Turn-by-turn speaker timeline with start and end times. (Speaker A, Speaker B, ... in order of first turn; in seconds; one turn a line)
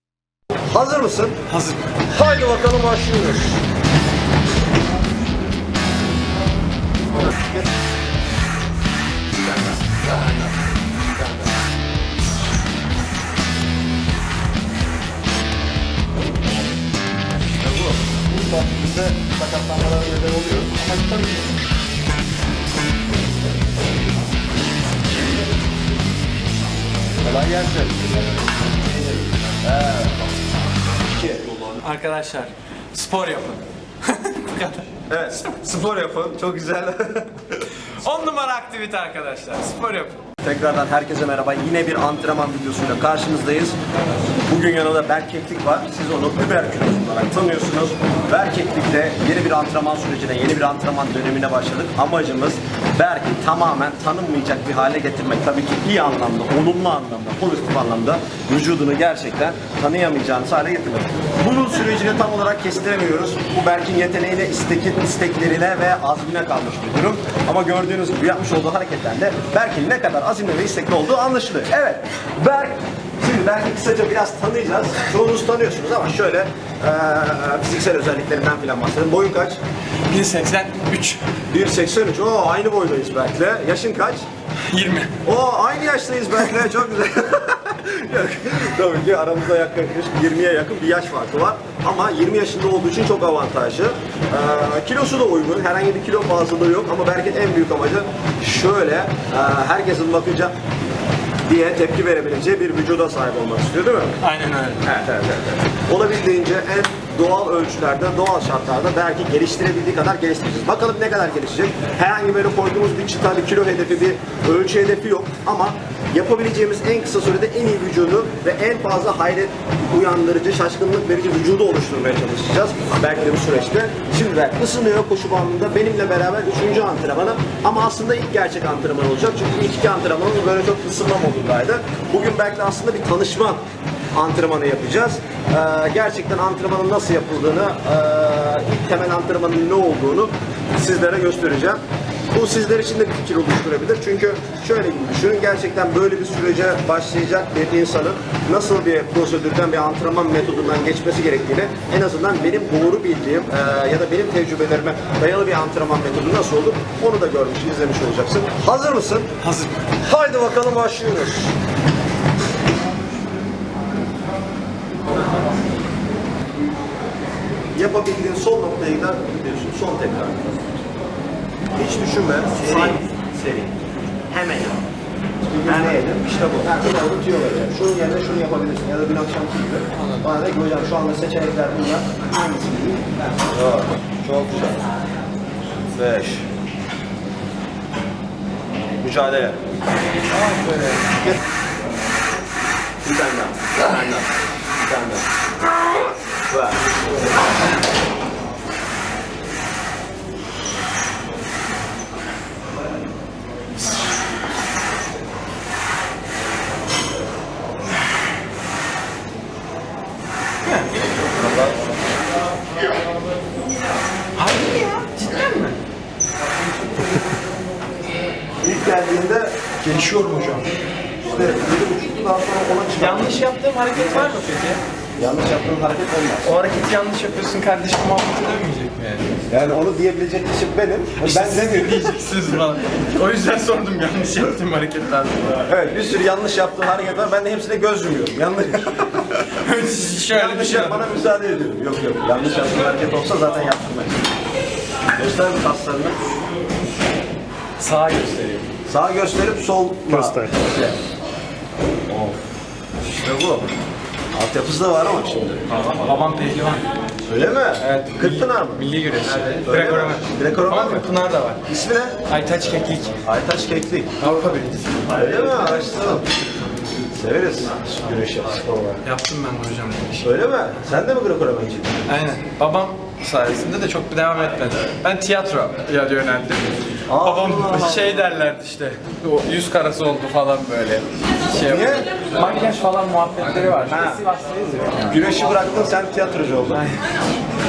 Speaker A: 0.7-1.4
Speaker B: 1.5-1.8
Speaker A: 2.1-3.6
Speaker A: 7.3-7.6
Speaker A: 9.4-10.3
Speaker A: 17.6-21.5
Speaker A: 27.2-28.2
Speaker A: 28.7-30.2
Speaker A: 31.0-31.5
Speaker B: 31.8-35.5
Speaker A: 35.1-37.7
Speaker B: 37.8-40.1
Speaker A: 40.4-43.8
Speaker A: 44.5-79.6
Speaker B: 80.1-81.2
Speaker A: 81.5-84.2
Speaker B: 84.6-85.1
Speaker A: 85.2-100.5
Speaker A: 101.4-104.2
Speaker B: 104.2-104.8
Speaker A: 104.8-133.6
Speaker A: 134.1-141.8
Speaker A: 142.3-159.3
Speaker B: 159.4-159.8
Speaker A: 160.0-161.5
Speaker A: 167.7-170.4
Speaker A: 171.7-173.7
Speaker A: 174.3-174.8
Speaker A: 175.4-184.8
Speaker B: 180.0-180.2
Speaker A: 185.9-186.4
Speaker A: 189.0-189.6
Speaker B: 190.3-191.1
Speaker A: 191.0-191.3
Speaker A: 193.0-195.2
Speaker A: 196.5-196.8
Speaker B: 210.6-210.9
Speaker A: 211.3-211.8
Speaker B: 214.3-215.8
Speaker A: 218.6-219.6
Speaker B: 219.8-220.7
Speaker A: 221.2-223.4
Speaker B: 222.9-224.8
Speaker A: 225.2-226.5
Speaker B: 226.4-229.3
Speaker A: 229.5-232.1
Speaker B: 231.2-235.6
Speaker A: 235.7-239.5
Speaker B: 239.5-241.1
Speaker A: 240.3-244.2
Speaker A: 245.1-246.2
Speaker B: 247.8-248.7
Speaker A: 248.9-250.5
Speaker B: 250.3-251.0
Speaker A: 252.1-252.4
Speaker A: 253.0-253.7
Speaker A: 254.3-255.6
Speaker B: 255.7-256.8
Speaker A: 257.2-261.1
Speaker B: 257.8-261.6
Speaker A: 261.6-262.2
Speaker B: 262.3-263.2
Speaker A: 263.2-264.1
Speaker B: 264.2-265.3
Speaker A: 265.1-266.2
Speaker A: 267.1-269.0
Speaker B: 269.0-270.4
Speaker A: 270.2-272.0
Speaker B: 272.1-285.3
Speaker A: 277.1-278.2
Speaker A: 281.6-282.1
Speaker A: 283.9-284.2
Speaker A: 285.1-286.8
Speaker B: 286.7-287.1